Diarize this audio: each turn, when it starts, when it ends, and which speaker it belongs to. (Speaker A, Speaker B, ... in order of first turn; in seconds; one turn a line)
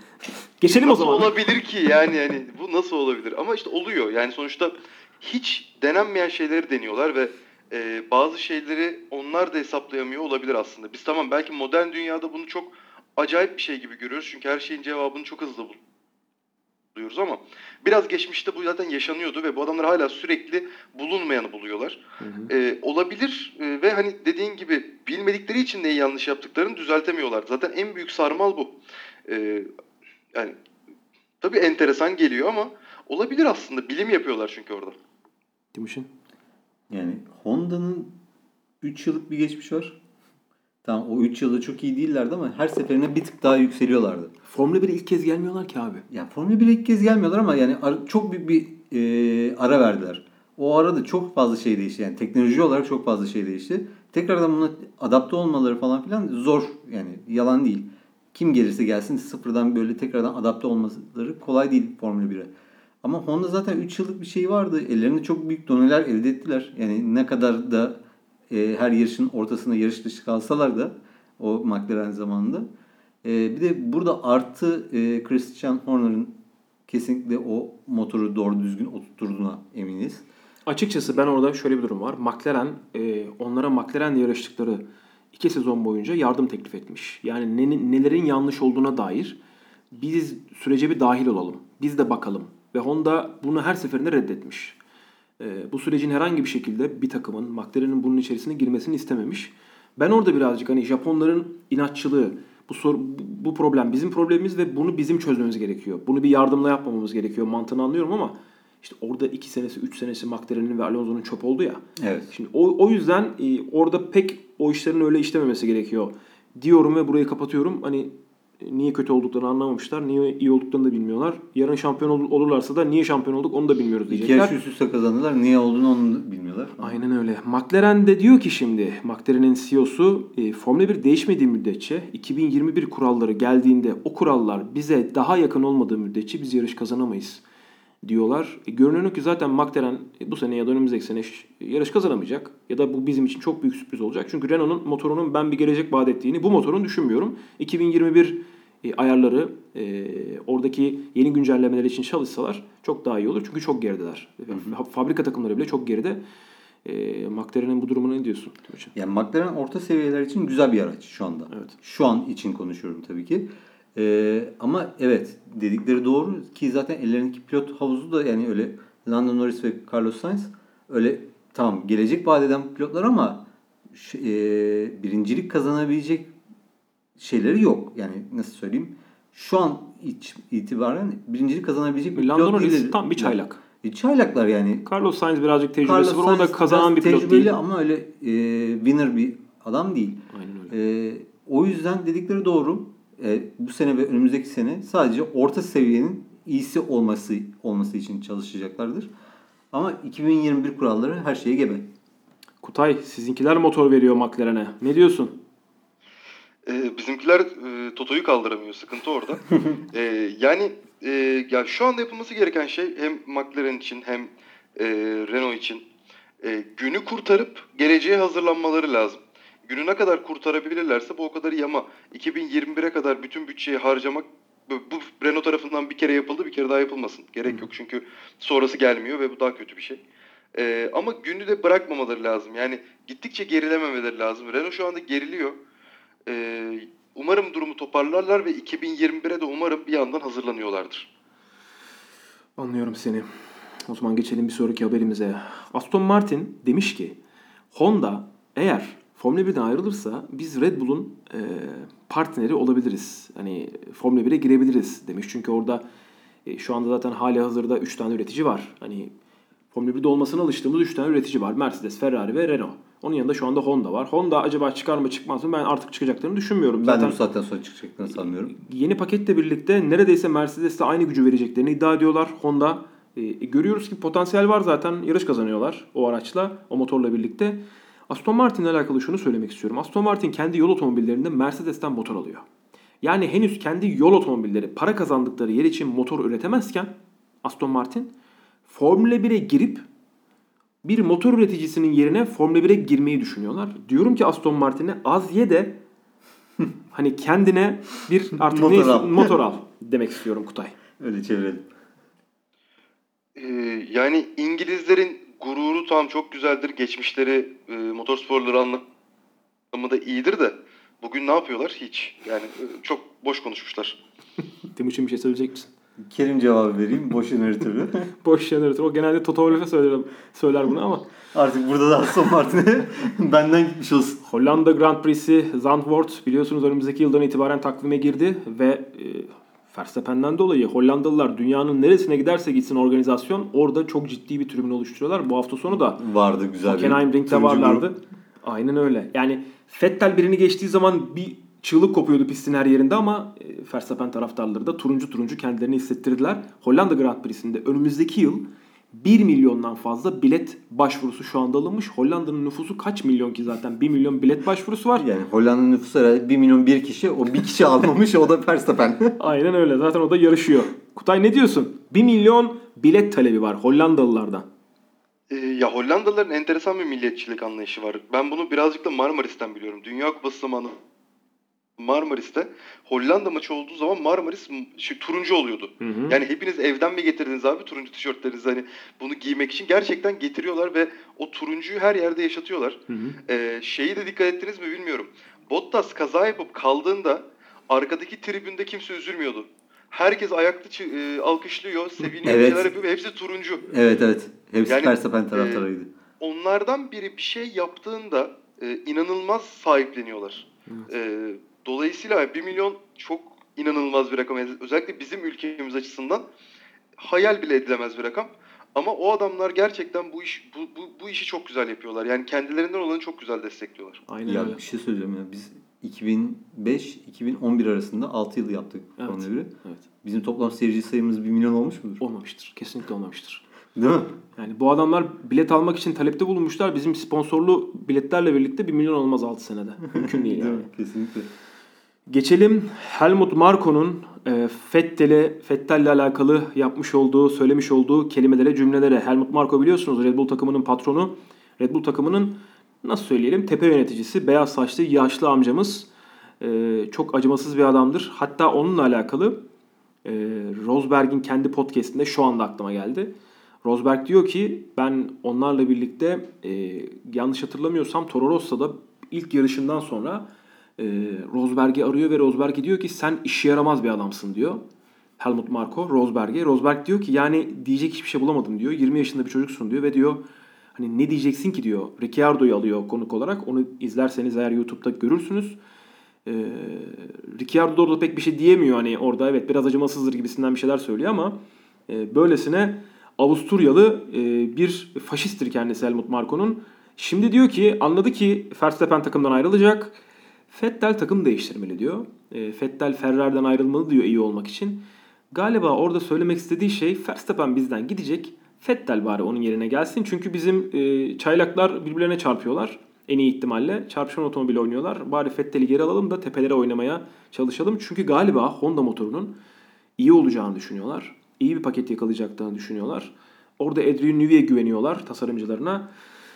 Speaker A: 0.6-1.3
Speaker B: 0.8-15.8
Speaker B: 16.9-28.7
Speaker A: 22.2-22.5
Speaker B: 29.3-29.7
Speaker B: 31.4-35.0
Speaker A: 35.7-36.1
Speaker C: 36.9-38.1
Speaker C: 38.8-40.0
Speaker C: 40.8-44.3
Speaker A: 44.5-46.0
Speaker C: 46.1-62.5
Speaker C: 63.0-72.7
Speaker C: 73.2-80.2
Speaker A: 80.7-89.4
Speaker A: 89.9-94.8
Speaker A: 95.4-124.5
Speaker C: 112.0-112.3
Speaker C: 124.1-127.0
Speaker A: 126.8-137.4
Speaker A: 138.0-156.2
Speaker A: 156.8-158.9
Speaker C: 158.9-176.3
Speaker A: 161.5-161.8
Speaker C: 177.2-184.9
Speaker A: 182.2-183.6
Speaker A: 184.8-187.5
Speaker C: 185.8-199.1
Speaker A: 190.3-190.7
Speaker C: 199.7-201.9
Speaker A: 202.6-205.4
Speaker B: 206.7-215.8
Speaker B: 216.4-230.0
Speaker B: 230.5-235.6
Speaker B: 236.3-241.1
Speaker A: 242.6-243.3
Speaker A: 243.9-247.2
Speaker A: 247.7-255.8
Speaker A: 256.5-259.1
Speaker A: 259.7-267.2
Speaker C: 266.8-268.5
Speaker A: 268.5-282.4
Speaker A: 283.0-288.1
Speaker A: 288.7-289.9
Speaker A: 290.8-295.8
Speaker A: 296.9-300.8
Speaker C: 298.5-299.3
Speaker C: 301.0-301.7
Speaker B: 303.4-308.8
Speaker B: 309.7-314.0
Speaker A: 314.8-315.7
Speaker C: 316.0-318.1
Speaker A: 318.2-321.1
Speaker C: 321.3-324.2
Speaker A: 324.2-336.0
Speaker C: 335.7-337.9
Speaker A: 336.6-355.1
Speaker C: 355.0-359.2
Speaker A: 359.2-364.5
Speaker B: 365.3-370.8
Speaker B: 371.8-393.6
Speaker A: 375.8-376.2
Speaker A: 382.9-383.2
Speaker C: 392.2-392.7
Speaker C: 393.7-395.9
Speaker B: 394.7-395.6
Speaker B: 396.2-406.2
Speaker B: 407.0-414.0
Speaker A: 414.1-414.6
Speaker C: 414.3-419.5
Speaker A: 419.0-419.9
Speaker C: 420.0-422.0
Speaker A: 422.0-423.4
Speaker C: 423.8-424.2
Speaker A: 424.4-430.7
Speaker C: 429.9-431.3
Speaker A: 432.1-445.9
Speaker A: 446.4-449.4
Speaker A: 450.1-453.1
Speaker A: 453.6-460.3
Speaker A: 460.8-464.6
Speaker A: 465.2-470.2
Speaker A: 470.8-475.6
Speaker A: 476.3-490.0
Speaker A: 490.5-509.3
Speaker A: 510.0-515.9